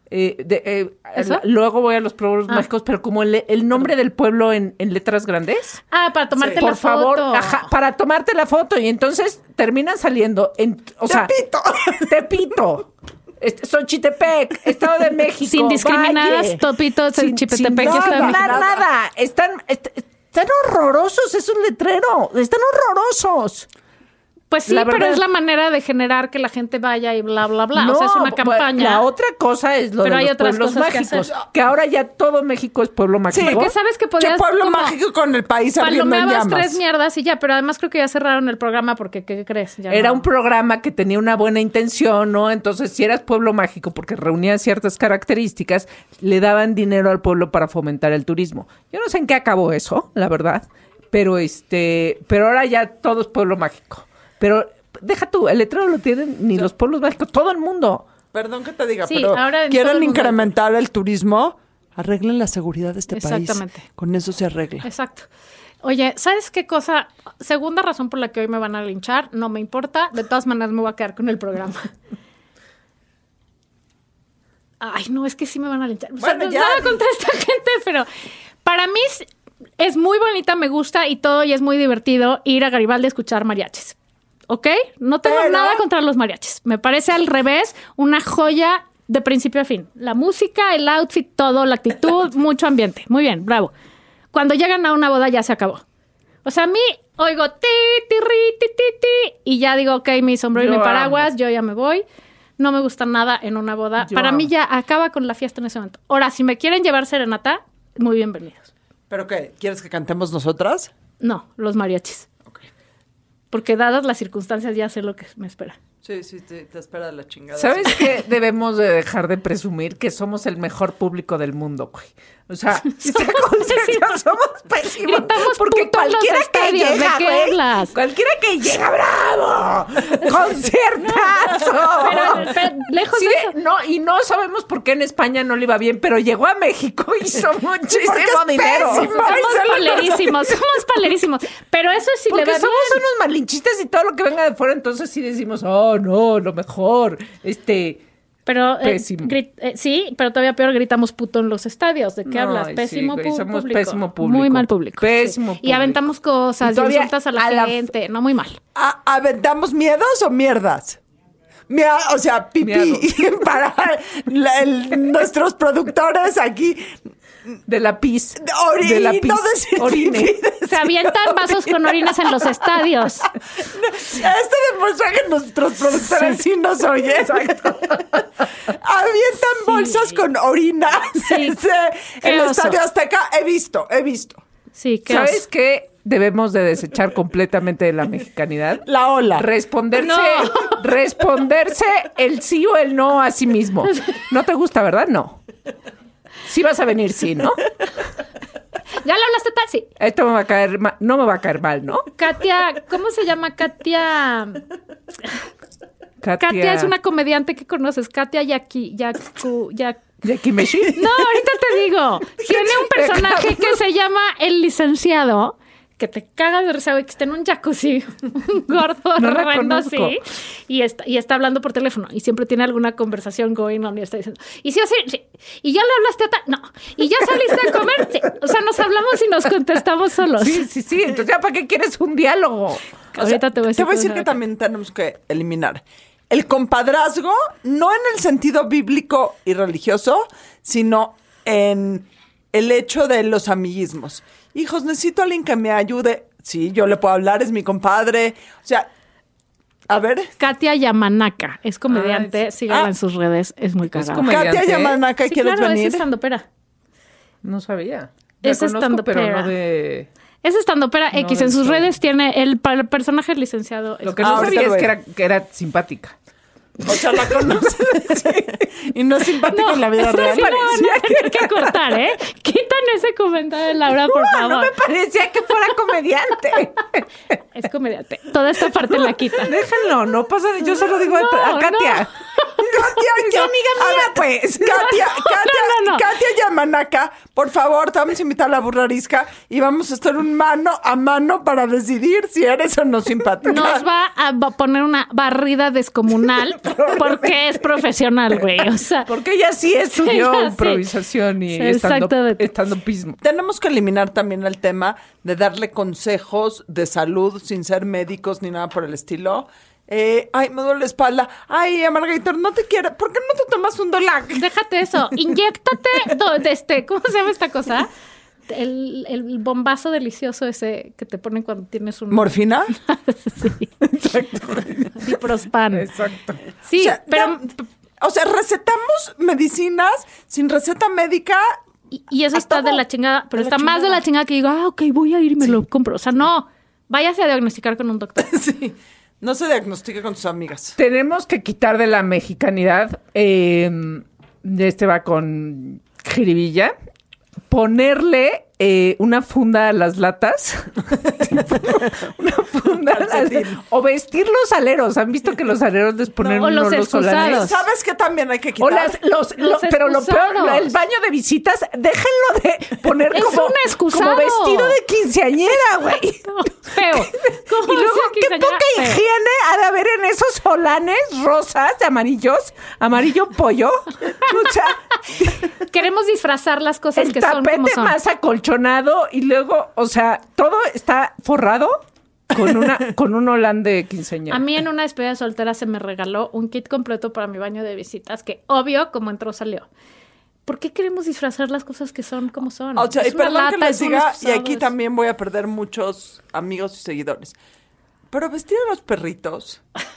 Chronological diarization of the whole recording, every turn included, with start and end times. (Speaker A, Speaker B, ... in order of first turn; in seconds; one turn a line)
Speaker A: 0.1-5.8
Speaker B: 1.1-1.4
Speaker B: 5.9-7.7
Speaker A: 6.6-11.3
Speaker C: 11.1-12.2
Speaker A: 11.9-16.6
Speaker B: 15.4-18.6
Speaker A: 17.1-23.7
Speaker C: 17.8-18.8
Speaker B: 24.5-29.0
Speaker A: 24.7-25.2
Speaker A: 27.8-33.7
Speaker B: 30.0-31.3
Speaker C: 33.3-36.8
Speaker B: 33.4-35.0
Speaker B: 35.8-40.2
Speaker A: 39.9-58.0
Speaker C: 58.3-64.9
Speaker B: 59.0-60.5
Speaker B: 63.1-63.9
Speaker B: 64.8-65.3
Speaker B: 65.8-71.9
Speaker B: 74.8-78.1
Speaker C: 76.2-77.0
Speaker B: 78.6-79.3
Speaker B: 79.8-84.0
Speaker B: 84.5-93.7
Speaker C: 85.2-85.8
Speaker B: 94.3-95.8
Speaker B: 96.4-102.0
Speaker A: 100.5-101.3
Speaker B: 102.6-108.7
Speaker A: 104.0-104.5
Speaker C: 109.1-110.9
Speaker B: 111.2-112.3
Speaker B: 113.5-115.8
Speaker C: 116.0-118.1
Speaker A: 117.6-139.2
Speaker B: 122.9-124.2
Speaker B: 125.0-127.9
Speaker B: 132.0-133.5
Speaker C: 137.9-140.5
Speaker B: 138.9-143.0
Speaker A: 142.3-148.0
Speaker B: 148.4-158.6
Speaker A: 148.8-149.3
Speaker A: 152.2-156.0
Speaker A: 156.6-157.9
Speaker C: 158.7-161.0
Speaker C: 161.7-167.0
Speaker A: 162.6-163.2
Speaker A: 167.7-170.6
Speaker C: 168.4-170.7
Speaker B: 170.7-173.3
Speaker C: 173.6-184.4
Speaker A: 177.2-178.0
Speaker B: 179.7-180.1
Speaker B: 181.2-181.6
Speaker B: 182.2-182.8
Speaker B: 184.7-185.4
Speaker A: 185.1-195.4
Speaker C: 188.8-189.5
Speaker B: 190.0-190.8
Speaker A: 196.4-197.6
Speaker B: 199.0-199.9
Speaker A: 200.0-202.1
Speaker B: 202.2-204.6
Speaker A: 206.2-206.9
Speaker B: 206.4-210.1
Speaker A: 210.2-211.2
Speaker B: 210.9-230.6
Speaker A: 212.5-213.8
Speaker A: 219.2-220.1
Speaker A: 230.4-232.8
Speaker B: 233.1-234.3
Speaker C: 233.2-248.9
Speaker C: 249.9-250.3
Speaker B: 250.4-254.3
Speaker A: 251.9-252.4
Speaker A: 253.9-255.0
Speaker C: 254.2-256.0
Speaker B: 255.2-256.4
Speaker A: 257.4-260.1
Speaker B: 258.4-259.5
Speaker B: 260.4-264.7
Speaker A: 261.1-261.9
Speaker A: 264.0-266.1
Speaker C: 264.2-264.9
Speaker C: 266.8-270.6
Speaker A: 267.6-268.4
Speaker B: 269.5-274.7
Speaker A: 270.0-272.0
Speaker A: 273.9-277.1
Speaker B: 277.5-279.5
Speaker A: 278.9-282.1
Speaker B: 280.6-282.8
Speaker A: 282.6-284.9
Speaker C: 282.7-293.8
Speaker B: 284.6-286.0
Speaker B: 293.4-299.1
Speaker A: 296.6-297.2
Speaker A: 299.0-303.2
Speaker B: 300.0-300.8
Speaker B: 301.5-302.4
Speaker C: 303.2-314.4
Speaker B: 314.3-317.9
Speaker B: 318.5-323.7
Speaker C: 322.1-322.7
Speaker A: 323.9-324.9
Speaker B: 324.9-325.9
Speaker A: 325.7-326.4
Speaker B: 326.7-327.6
Speaker C: 326.7-331.6
Speaker B: 331.9-338.3
Speaker C: 332.3-332.8
Speaker C: 333.3-334.0
Speaker C: 338.2-340.8
Speaker A: 340.8-346.7
Speaker A: 347.5-357.5
Speaker C: 352.8-353.6
Speaker B: 356.3-357.6
Speaker C: 357.1-359.0
Speaker A: 358.6-375.5
Speaker B: 359.4-360.7
Speaker B: 363.1-364.8
Speaker B: 366.2-369.0
Speaker B: 375.6-377.9
Speaker A: 377.0-384.4
Speaker B: 384.3-389.7
Speaker B: 390.4-394.7
Speaker C: 392.8-397.4
Speaker C: 398.1-399.6